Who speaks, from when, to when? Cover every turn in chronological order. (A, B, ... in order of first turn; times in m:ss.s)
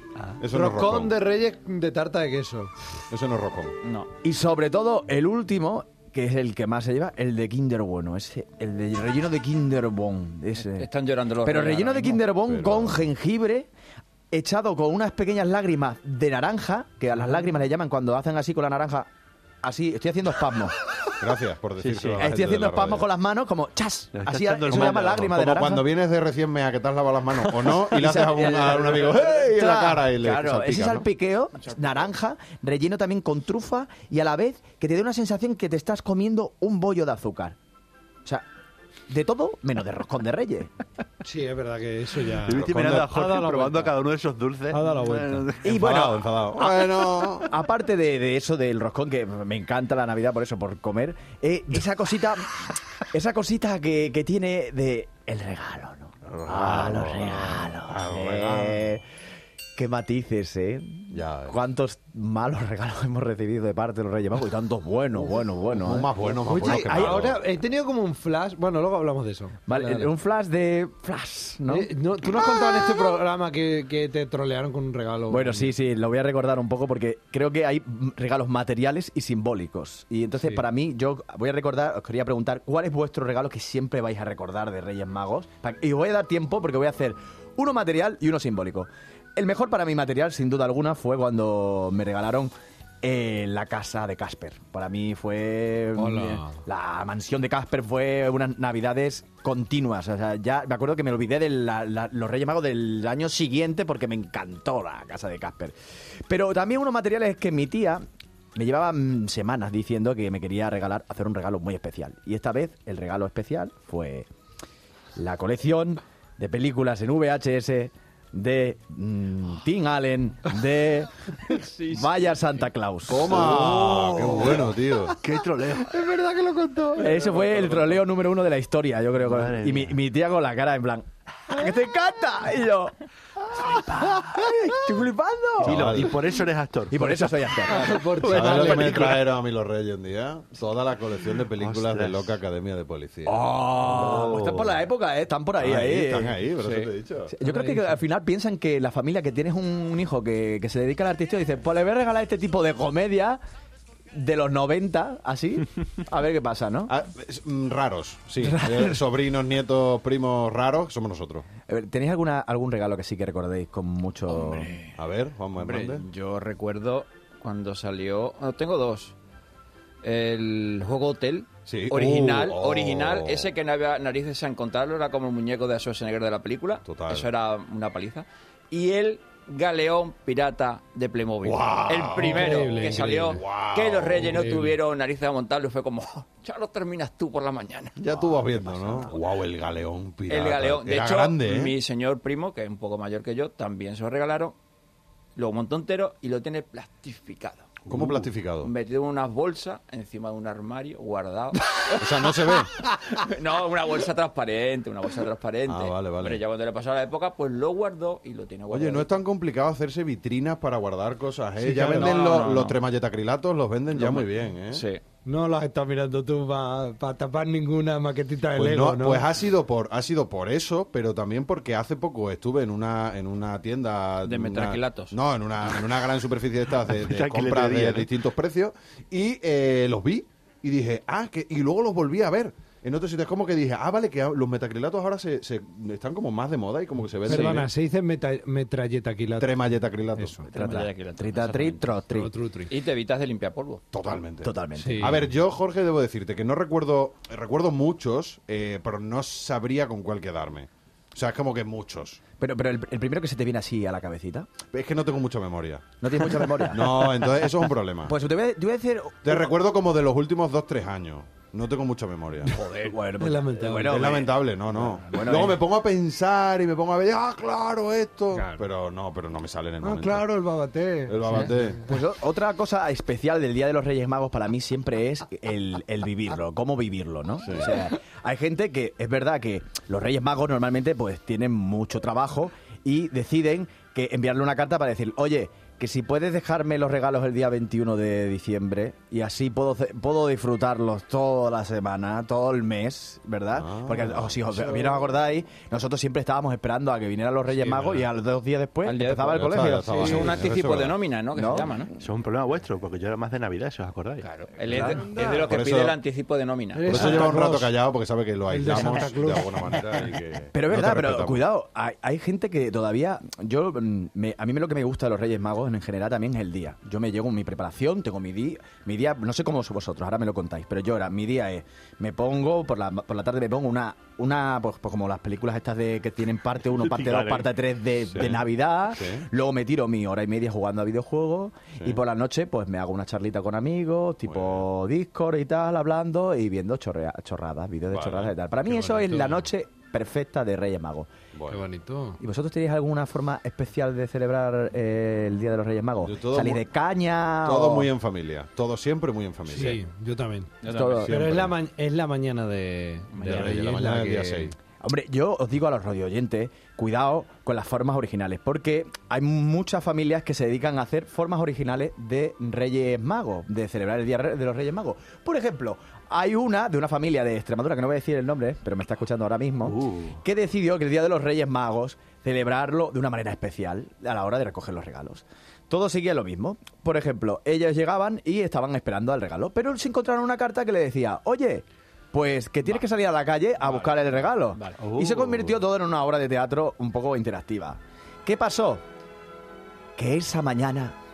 0:00.4-0:01.2 A
0:00.5-0:02.7 B
0:03.1-0:03.8 A
0:03.8-0:04.1 C
0:04.2-0:10.9 D
0:10.6-0:12.3 C
0:11.4-0:13.7 D
0:12.4-0:13.1 A
0:14.3-0:19.1 D
0:19.6-0:20.8 D
0:21.2-0:23.1 A
0:21.8-0:22.3 E
0:22.2-0:25.9 D
0:24.1-0:25.4 E
0:24.7-0:31.1 A
0:27.6-0:37.6 D
0:39.1-0:40.7 D
0:41.2-0:44.0 B
0:42.4-0:45.8 E
0:42.5-0:43.2 A
0:44.7-0:45.6 B
0:45.6-0:59.0 D
0:45.6-0:47.5 A
0:56.3-0:58.9 A
0:56.8-0:57.3 E
0:59.8-1:07.2 D
1:01.1-1:01.6 A
1:05.7-1:07.4 A
1:06.4-1:10.1 B
1:09.7-1:11.9 D
1:11.7-1:15.7 B
1:15.3-1:45.8 D
1:36.0-1:36.6 B
1:46.3-1:48.0 D
1:48.6-1:54.3 D
1:55.2-2:03.7 D
2:03.1-2:05.2 A
2:03.4-2:04.2 E
2:03.5-2:05.1 B
2:05.2-2:06.0 E
2:05.8-2:07.2 B
2:07.0-2:16.2 D
2:07.3-2:08.0 E
2:09.2-2:10.0 E
2:15.6-2:17.3 E
2:15.6-2:16.2 A
2:16.9-2:19.1 D
2:17.7-2:19.2 B
2:18.2-2:24.4 A
2:18.3-2:19.1 E
2:21.6-2:22.4 E
2:23.2-2:26.4 D
2:23.9-2:24.7 E
2:25.6-2:27.4 A
2:26.6-2:26.9 C
2:27.3-2:33.4 D
2:27.4-2:27.8 B
2:34.1-2:36.9 D
2:36.9-2:41.5 A
2:38.4-2:39.0 D
2:41.7-2:44.7 D
2:44.3-2:45.0 C
2:45.0-2:46.0 A
2:45.6-2:49.2 C
2:50.0-3:08.0 C
2:51.7-2:53.5 A
2:56.8-2:57.3 A
3:01.4-3:02.6 A
3:02.2-3:03.4 B
3:03.3-3:04.5 A
3:04.4-3:04.8 B
3:08.0-3:11.8 A
3:10.3-3:14.6 C
3:15.4-3:17.7 C
3:17.9-3:18.3 E
3:17.9-3:18.7 A
3:18.6-3:29.2 C
3:22.0-3:22.7 A
3:25.7-3:26.4 A
3:28.7-3:34.8 A
3:31.6-3:32.3 B
3:31.8-3:32.8 C
3:33.9-3:35.0 C
3:35.2-3:39.3 B
3:38.5-3:57.7 A
3:44.2-3:45.2 C
3:46.9-3:48.1 E
3:57.2-3:59.5 B
3:57.3-3:57.6 C
3:59.4-4:00.4 A
4:00.2-4:00.5 B
4:00.5-4:02.3 D
4:00.5-4:02.0 C
4:02.1-4:02.7 B
4:02.7-4:03.8 C
4:03.9-4:12.2 A
4:04.4-4:05.3 D
4:04.8-4:05.2 B
4:12.4-4:14.5 D
4:14.7-4:15.9 A
4:16.0-4:17.5 D
4:16.6-4:18.2 A
4:18.0-4:19.5 D
4:19.2-4:22.6 A
4:22.5-4:25.6 D
4:23.2-4:24.0 B
4:23.8-4:30.3 A
4:29.8-4:31.8 B
4:31.1-4:31.8 A
4:31.8-5:00.4 D
4:37.4-4:37.8 A
4:53.5-4:54.4 A
4:54.7-4:54.9 B
4:58.8-5:01.9 C
4:59.3-5:01.0 A
5:01.4-5:01.9 D
5:02.0-5:04.3 E
5:04.2-5:07.2 C
5:04.7-5:05.0 D
5:04.8-5:05.5 B
5:05.2-5:06.0 A
5:06.7-5:07.8 B
5:06.9-5:11.4 A
5:08.5-5:10.0 B
5:10.5-5:41.1 D
5:26.8-5:27.5 E
5:28.1-5:29.2 A
5:34.3-5:34.6 A
5:37.9-5:38.4 A
5:41.3-5:41.6 A
5:41.5-5:42.2 B
5:42.2-5:47.9 D
5:46.0-5:46.6 A
5:47.4-5:49.8 A
5:49.5-5:54.5 B
5:50.6-5:51.1 C
5:50.6-5:51.4 D
5:51.1-5:51.5 A
5:53.1-5:53.6 C
5:53.2-5:54.5 A
5:54.8-6:28.8 D
6:09.6-6:10.2 E
6:24.8-6:25.6 E
6:30.0-6:31.0 D